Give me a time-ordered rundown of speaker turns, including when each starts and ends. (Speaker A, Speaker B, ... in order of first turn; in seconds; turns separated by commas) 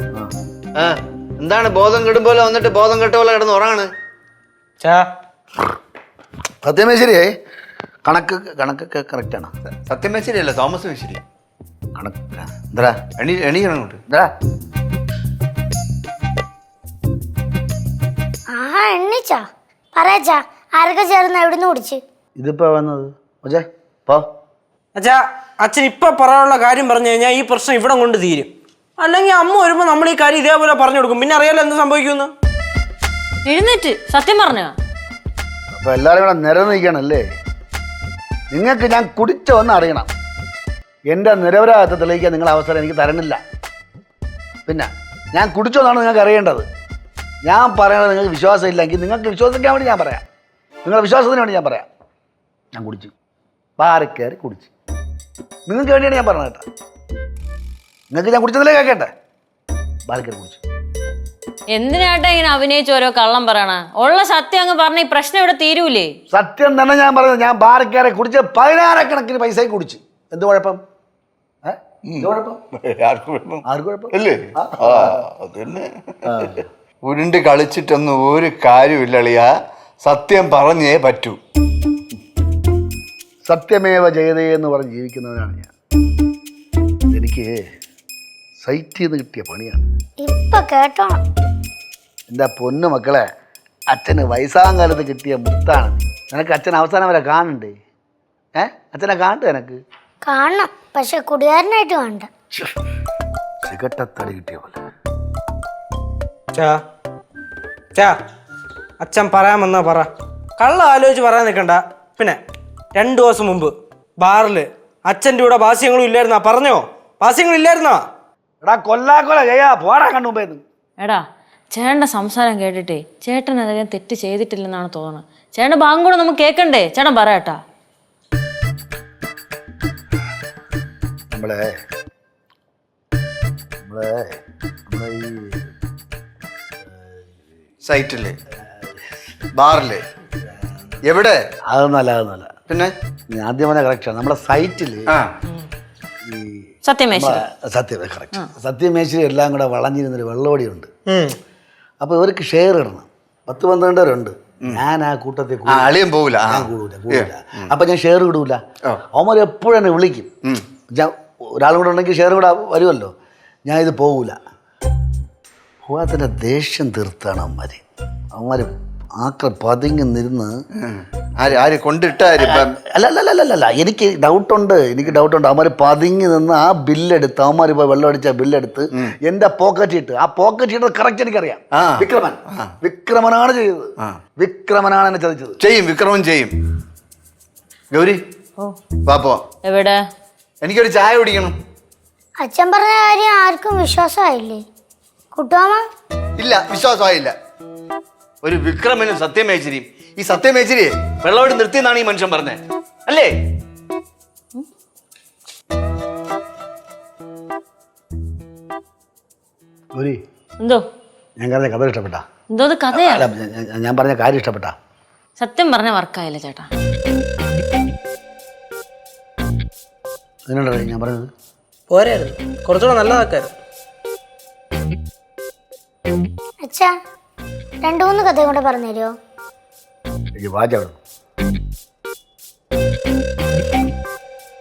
Speaker A: 0.8-3.9, Speaker B: 4.8-5.1, Speaker C: 6.6-7.3, Speaker C: 8.1-9.5, Speaker A: 9.9-11.2, Speaker C: 12.0-13.0, Speaker A: 13.2-14.0, Speaker D: 18.5-22.0, Speaker C: 22.4-24.2, Speaker B: 24.9-32.3, Speaker E: 33.5-34.7, Speaker C: 35.7-37.2, Speaker C: 38.5-40.1, Speaker C: 41.1-43.4, Speaker C: 44.7-46.6, Speaker C: 47.5-50.2, Speaker C: 50.8-51.9, Speaker C: 52.7-53.1, Speaker C: 53.8-54.7, Speaker C: 55.7-56.6, Speaker C: 58.1-59.1, Speaker C: 60.1-60.6, Speaker E: 61.7-66.1, Speaker C: 66.3-70.8, Speaker C: 71.6-72.6, Speaker A: 72.9-73.6, Speaker C: 73.7-75.2, Speaker A: 74.1-75.9, Speaker C: 76.3-76.6, Speaker A: 77.0-79.5, Speaker A: 80.0-81.4, Speaker C: 83.5-85.7, Speaker C: 87.1-87.5, Speaker C: 88.6-89.8, Speaker D: 90.2-91.2, Speaker C: 92.3-93.2, Speaker C: 93.9-97.8, Speaker C: 98.6-99.8, Speaker D: 100.2-102.3, Speaker C: 103.7-104.8, Speaker B: 106.5-106.8, Speaker B: 109.0-112.4, Speaker B: 113.0-118.0, Speaker C: 118.6-120.6, Speaker E: 121.7-127.6, Speaker C: 131.3-131.7, Speaker C: 133.8-134.4, Speaker C: 134.9-135.6, Speaker A: 137.8-138.4, Speaker A: 139.6-140.0, Speaker A: 141.0-141.4, Speaker C: 141.7-142.5, Speaker C: 143.3-145.1, Speaker C: 146.3-150.9, Speaker E: 146.8-147.4, Speaker C: 152.0-155.9, Speaker A: 155.7-157.7, Speaker C: 156.5-158.6, Speaker C: 159.1-160.3, Speaker C: 160.9-163.1, Speaker C: 163.7-164.4, Speaker C: 165.8-167.8, Speaker C: 168.3-170.6, Speaker A: 170.8-172.7, Speaker C: 172.4-185.6, Speaker A: 181.7-182.7, Speaker A: 185.6-186.5, Speaker A: 187.9-188.2, Speaker A: 189.1-189.4, Speaker E: 189.6-190.0, Speaker A: 190.6-191.6, Speaker D: 192.4-194.6, Speaker D: 195.3-195.8, Speaker A: 196.4-197.3, Speaker A: 198.4-203.3, Speaker C: 211.4-212.2, Speaker E: 212.5-213.2, Speaker C: 212.9-214.7, Speaker E: 215.4-216.7, Speaker C: 220.5-221.3, Speaker B: 221.9-223.5, Speaker D: 226.6-226.9, Speaker D: 227.8-229.1, Speaker C: 230.4-231.0